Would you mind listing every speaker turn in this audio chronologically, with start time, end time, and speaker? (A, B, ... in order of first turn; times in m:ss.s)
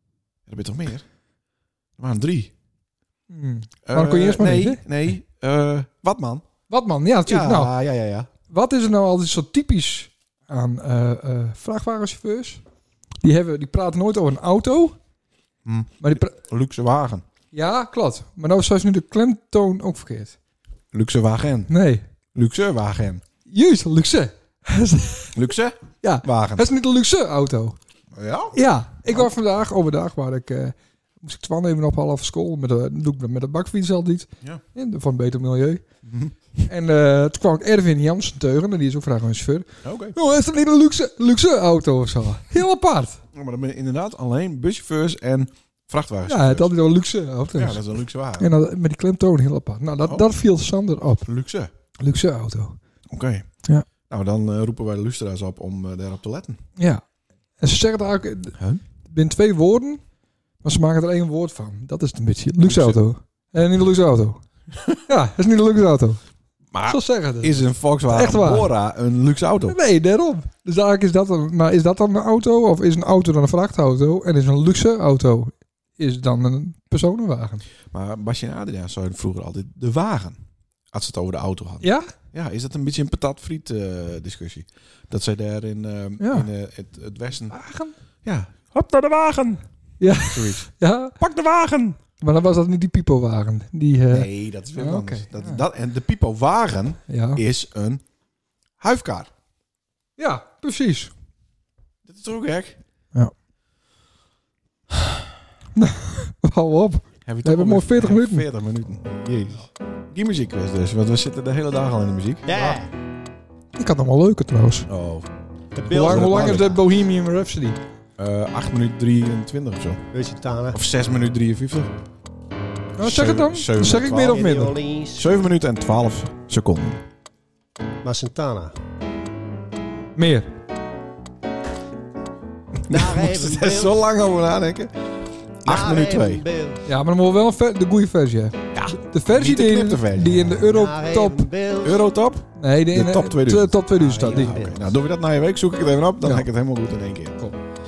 0:00.5-0:01.0 A
0:02.0-0:02.5 A
0:03.3-0:04.8 B
0:03.8-0:06.4 A
0:06.7-0:07.7 B
0:07.3-0:08.3 A
0:08.5-0:12.6 B
0:13.2-0:15.0 B
0:15.6-0:17.2 A
0:16.0-0:16.4 B
0:17.5-0:20.4 B
0:20.9-0:21.7 A
0:21.7-0:22.0 B
0:22.3-0:23.2 A
0:23.5-0:25.4 B
0:25.3-0:26.6 A
0:26.0-0:27.8 B
0:28.1-0:29.3 A
0:28.5-0:35.8 B
0:36.0-0:36.3 A
0:36.6-0:43.2 B
0:39.8-0:40.2 A
0:43.3-0:46.7 A
0:46.3-0:47.8 B
0:47.6-0:48.5 A
0:48.4-0:51.3 B
0:51.2-0:51.7 A
0:52.0-0:52.8 B
0:53.1-0:53.5 A
0:54.1-0:56.6 A
0:56.8-0:57.0 B
0:57.6-1:00.0 B
1:00.6-1:04.4 B
1:02.6-1:03.0 A
1:04.7-1:05.0 A
1:05.1-1:06.2 B
1:06.7-1:09.8 A
1:06.9-1:08.7 B
1:09.7-1:17.6 B
1:17.9-1:20.4 A
1:20.9-1:27.6 A
1:21.8-1:22.1 B
1:26.2-1:26.5 B
1:27.5-1:28.0 B
1:28.2-1:29.6 A
1:30.0-1:31.2 B
1:30.2-1:32.0 A
1:32.2-1:35.6 B
1:34.1-1:38.0 A
1:37.1-1:37.4 B
1:38.8-1:39.3 A
1:40.2-1:41.1 B
1:42.0-1:42.8 A
1:45.8-1:48.5 B
1:47.2-1:52.8 A
1:52.5-1:52.9 C
1:53.8-1:54.9 B
1:54.9-1:55.3 A
1:55.8-1:56.8 C
1:55.9-1:57.8 B
1:55.9-1:56.7 A
1:58.2-2:00.0 A
2:00.1-2:00.8 C
2:00.7-2:01.9 A
2:03.0-2:04.8 B
2:03.0-2:04.6 A
2:04.2-2:05.3 C
2:05.2-2:07.0 A
2:08.0-2:08.8 C
2:10.2-2:10.5 B
2:12.9-2:15.0 A
2:12.9-2:14.0 C
2:15.6-2:16.4 A
2:15.6-2:16.8 C
2:16.8-2:21.5 B
2:18.7-2:20.5 A
2:20.6-2:22.0 C
2:21.8-2:27.4 A
2:22.6-2:24.7 B
2:24.0-2:24.9 C
2:26.2-2:26.5 B